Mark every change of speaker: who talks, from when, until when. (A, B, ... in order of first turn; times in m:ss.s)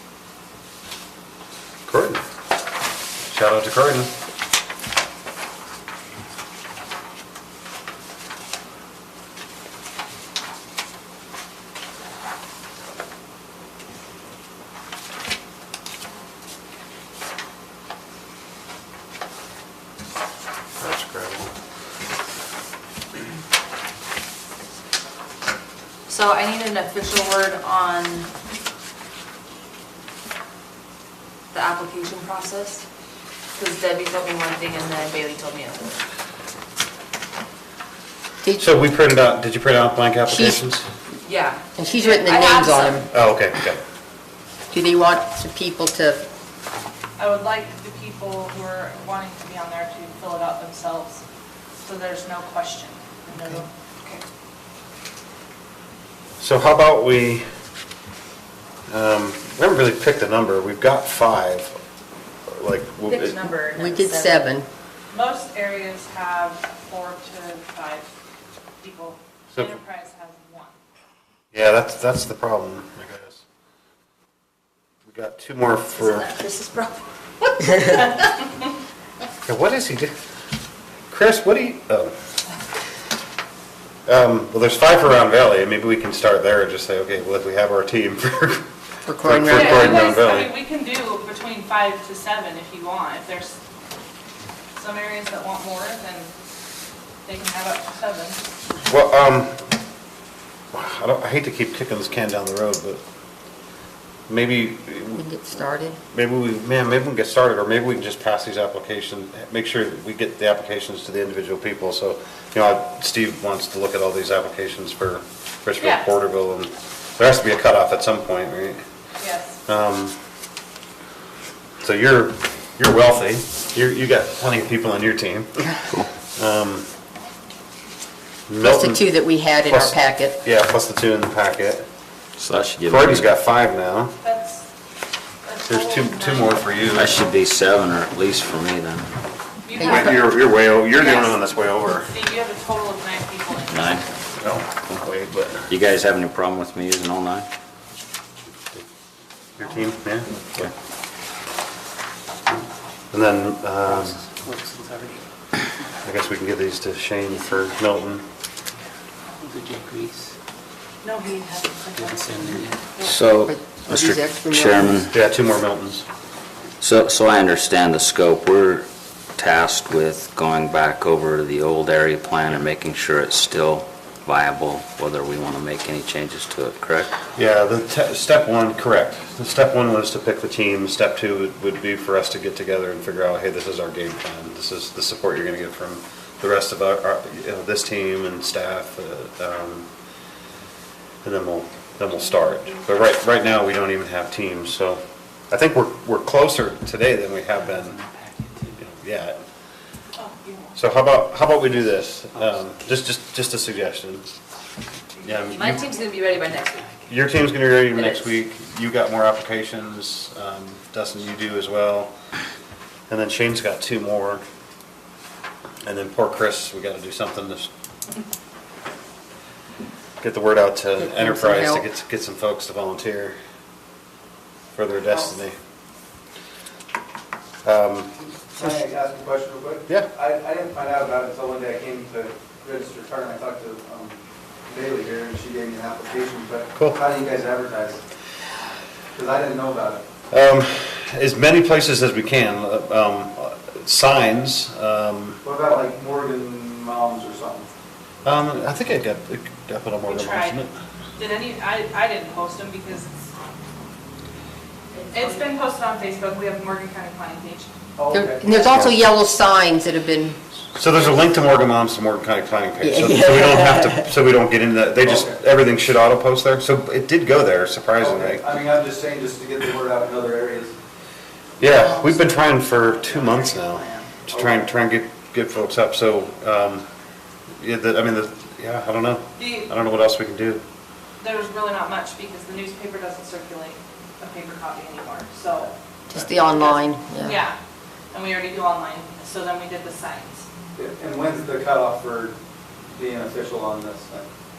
0:01.9-0:02.2 A
0:03.3-0:04.1 A
0:20.8-0:21.5 A
0:26.1-0:28.3 B
0:31.5-0:32.8 B
0:33.6-0:36.0 B
0:38.6-0:40.9 A
0:40.3-0:40.6 C
0:41.2-0:43.1 B
0:41.8-0:43.1 C
0:43.1-0:43.8 A
0:44.7-0:46.3 C
0:47.2-0:51.2 D
0:51.8-0:54.2 D
0:53.4-0:53.6 C
0:56.4-0:57.4 A
0:58.9-1:01.8 A
1:02.5-1:03.4 A
1:03.1-1:04.4 B
1:03.8-1:04.7 C
1:05.1-1:08.1 D
1:08.8-1:10.7 D
1:09.5-1:09.8 A
1:11.5-1:13.4 A
1:15.0-1:16.3 A
1:16.0-1:18.1 B
1:19.4-1:20.1 A
1:21.1-1:22.1 A
1:24.1-1:28.7 A
1:29.1-1:30.0 C
1:29.2-1:30.6 A
1:29.5-1:33.6 D
1:34.8-1:36.3 D
1:37.3-1:38.4 D
1:38.8-1:39.6 A
1:40.7-1:43.0 A
1:44.3-1:45.3 A
1:45.2-1:46.0 C
1:46.1-1:58.8 A
1:55.8-1:56.1 D
1:59.2-1:59.6 D
1:59.7-2:00.2 A
2:01.8-2:05.7 A
2:06.3-2:06.9 A
2:08.5-2:09.1 A
2:08.6-2:10.4 C
2:09.6-2:11.9 A
2:12.4-2:13.3 E
2:12.9-2:14.2 A
2:14.2-2:14.7 D
2:15.4-2:16.8 D
2:15.7-2:17.2 A
2:16.9-2:19.1 E
2:19.6-2:24.0 D
2:19.8-2:22.1 A
2:23.7-2:24.1 E
2:24.4-2:25.7 A
2:25.7-2:27.5 E
2:29.6-2:30.7 A
2:33.1-2:34.2 A
2:33.8-2:35.2 F
2:36.0-2:38.2 A
2:39.4-2:40.3 F
2:41.0-2:43.3 D
2:42.0-2:42.8 F
2:43.0-2:45.2 E
2:43.5-2:45.1 C
2:45.1-2:46.0 A
2:46.8-2:57.1 E
2:57.4-3:09.9 A
3:11.2-3:18.0 A
3:12.4-3:12.7 D
3:18.4-3:18.7 F
3:18.8-3:19.4 A
3:20.2-3:20.8 D
3:20.8-3:24.3 A
3:25.2-3:25.9 A
3:25.5-3:27.0 B
3:27.1-3:32.1 A
3:27.9-3:28.3 B
3:33.1-3:34.4 A
3:35.8-3:37.7 A
3:40.2-3:43.4 A
3:41.0-3:41.9 C
3:44.8-3:45.6 A
3:47.6-3:48.2 A
3:48.5-3:58.0 G
3:59.1-4:00.0 G
4:00.3-4:05.4 A
4:05.4-4:07.7 G
4:08.2-4:10.7 A
4:10.1-4:13.3 D
4:15.1-4:17.7 D
4:18.0-4:18.6 G
4:18.1-4:20.4 C
4:18.7-4:19.0 A
4:20.8-4:28.5 A
4:22.8-4:24.1 C
4:25.0-4:25.4 G
4:28.0-4:30.7 G
4:31.6-4:36.9 A
4:31.7-4:32.2 B
4:33.1-4:34.1 B
4:34.3-4:34.7 G
4:37.6-4:40.6 A
4:39.4-4:39.7 D
4:41.2-4:45.7 D
4:46.1-4:47.4 C
4:46.5-4:47.6 D
4:48.1-4:50.4 D
4:50.8-4:52.4 G
4:52.9-4:54.3 G